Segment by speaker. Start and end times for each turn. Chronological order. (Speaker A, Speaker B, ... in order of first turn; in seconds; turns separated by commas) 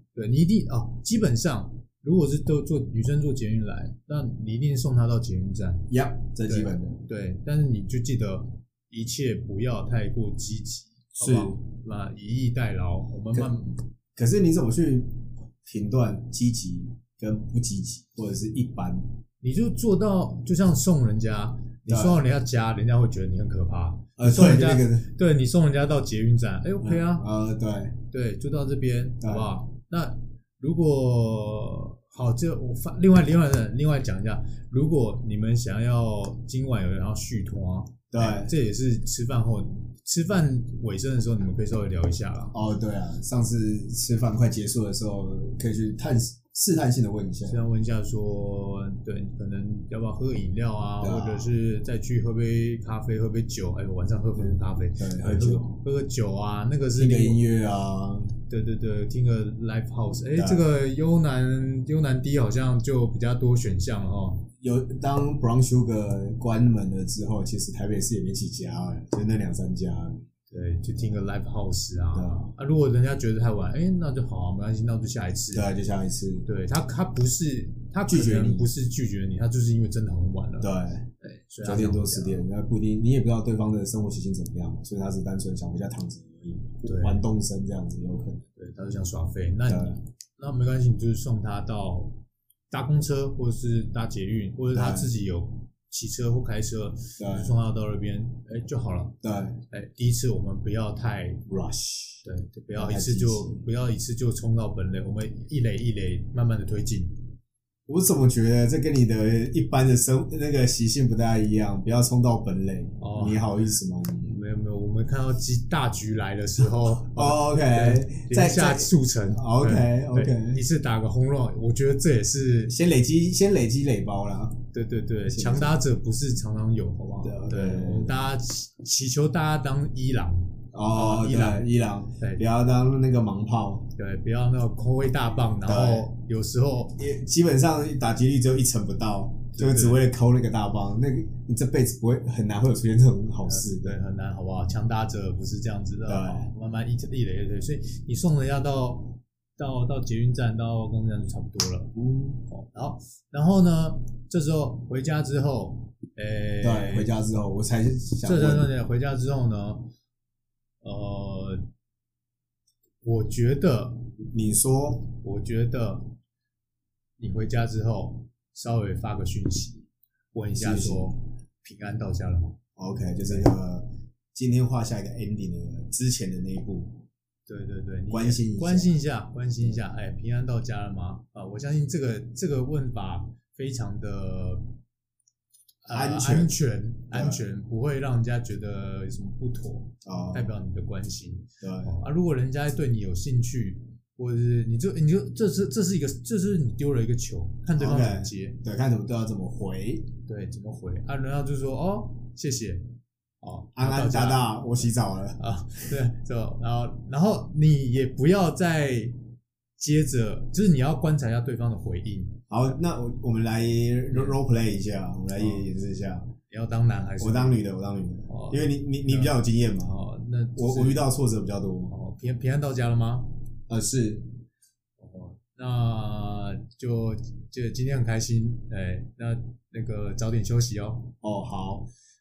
Speaker A: 0.1-5.9, Speaker B: 5.9-7.0, Speaker A: 6.4-13.8, Speaker B: 11.2-11.6, Speaker B: 14.2-19.1, Speaker A: 19.4-27.2, Speaker B: 21.9-22.2, Speaker B: 24.2-25.1, Speaker B: 26.8-27.9, Speaker A: 28.1-42.5, Speaker B: 29.2-29.5, Speaker B: 38.1-38.5, Speaker B: 42.5-47.6, Speaker A: 47.5-57.4, Speaker B: 51.0-51.5, Speaker B: 54.4-55.8, Speaker B: 56.9-58.3, Speaker A: 58.5-64.5, Speaker B: 60.3-60.6, Speaker B: 64.6-70.3, Speaker A: 70.5-75.7, Speaker B: 72.1-72.5, Speaker B: 75.5-76.5, Speaker A: 76.5-82.4, Speaker B: 78.1-78.7, Speaker B: 80.6-81.1, Speaker B: 81.6-88.4, Speaker A: 86.8-87.2, Speaker A: 88.5-92.2, Speaker B: 89.7-90.0, Speaker A: 92.7-99.2, Speaker B: 94.7-95.1, Speaker B: 97.2-97.5, Speaker B: 99.2-99.6, Speaker A: 99.7-101.4, Speaker B: 101.5-102.2, Speaker A: 102.2-107.2, Speaker B: 102.7-103.6, Speaker B: 107.9-114.4, Speaker A: 113.0-113.4, Speaker A: 114.2-122.8, Speaker B: 117.1-120.6, Speaker B: 122.7-124.6, Speaker A: 124.7-131.7, Speaker B: 125.2-125.8, Speaker B: 127.2-128.2, Speaker B: 130.7-133.9, Speaker A: 132.2-132.4, Speaker A: 133.9-137.0, Speaker B: 135.6-136.1, Speaker B: 137.0-143.9, Speaker A: 139.5-140.0, Speaker A: 143.4-151.9, Speaker B: 146.1-146.5, Speaker B: 151.9-152.4, Speaker A: 152.5-157.1, Speaker B: 156.6-158.7, Speaker A: 158.2-159.9, Speaker A: 160.8-161.7, Speaker A: 163.0-164.1, Speaker B: 164.3-165.1, Speaker A: 165.1-166.1, Speaker A: 167.2-172.6, Speaker B: 170.6-171.2, Speaker B: 172.8-177.0, Speaker A: 173.2-173.5, Speaker A: 177.5-184.7, Speaker B: 178.1-178.9, Speaker A: 185.8-198.6, Speaker B: 185.9-186.6, Speaker B: 187.1-187.4, Speaker B: 190.0-190.5, Speaker B: 191.6-191.9, Speaker B: 197.8-200.1, Speaker A: 200.3-209.2, Speaker B: 203.8-205.4, Speaker A: 209.8-212.4, Speaker B: 212.5-216.3, Speaker A: 214.1-214.4, Speaker A: 215.3-215.6, Speaker A: 216.5-217.6, Speaker B: 217.2-220.0, Speaker A: 218.3-221.1, Speaker B: 220.6-221.9, Speaker A: 221.9-223.3, Speaker B: 223.7-224.3, Speaker A: 225.0-231.1, Speaker B: 231.2-231.9